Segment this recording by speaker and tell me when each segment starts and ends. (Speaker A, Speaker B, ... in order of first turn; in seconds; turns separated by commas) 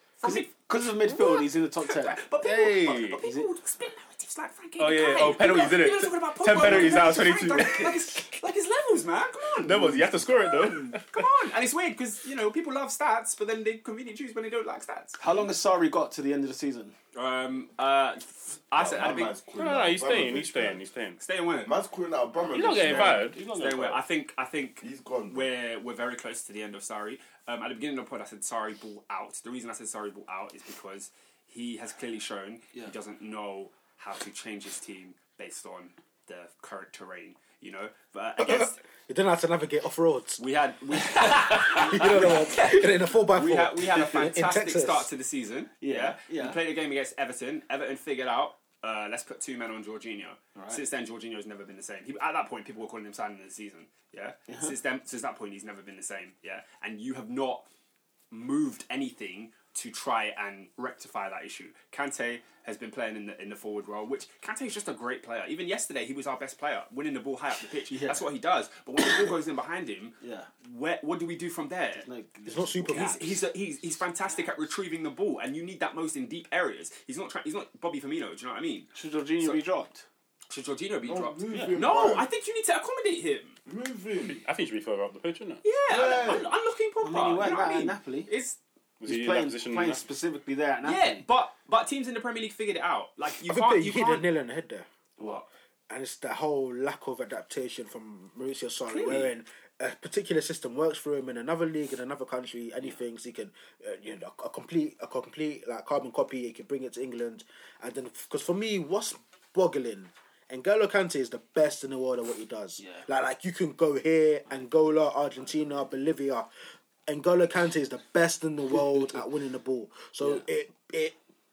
Speaker A: 0.2-15.2, Speaker B: 0.2-2.3, Speaker C: 2.4-3.2, Speaker B: 3.2-3.5, Speaker C: 4.8-8.2, Speaker B: 6.6-7.7, Speaker C: 9.6-11.2, Speaker B: 15.2-16.9, Speaker A: 17.1-19.4, Speaker D: 18.8-20.9, Speaker C: 19.5-21.2, Speaker A: 21.2-21.7, Speaker D: 21.6-23.4, Speaker C: 22.5-24.0, Speaker A: 22.8-38.8, Speaker D: 24.8-25.5, Speaker E: 38.4-40.4, Speaker A: 40.4-57.7, Speaker B: 41.1-42.2, Speaker E: 41.7-45.1, Speaker B: 45.8-46.6, Speaker B: 50.5-50.8, Speaker A: 58.3-72.1, Speaker B: 67.9-68.3, Speaker B: 70.2-70.5, Speaker B: 71.9-73.1, Speaker E: 72.5-73.4, Speaker A: 72.9-79.6, Speaker B: 78.9-80.0, Speaker A: 80.5-83.6, Speaker D: 81.1-82.3, Speaker B: 81.5-81.8, Speaker D: 83.7-84.4, Speaker C: 84.2-85.6, Speaker A: 85.6-88.6, Speaker D: 85.9-86.5, Speaker B: 87.0-88.3, Speaker C: 89.0-90.0, Speaker B: 89.0-91.2, Speaker A: 90.8-94.3, Speaker E: 93.4-94.9, Speaker E: 95.9-116.5, Speaker A: 98.9-99.3, Speaker B: 112.8-113.0, Speaker E: 117.1-121.2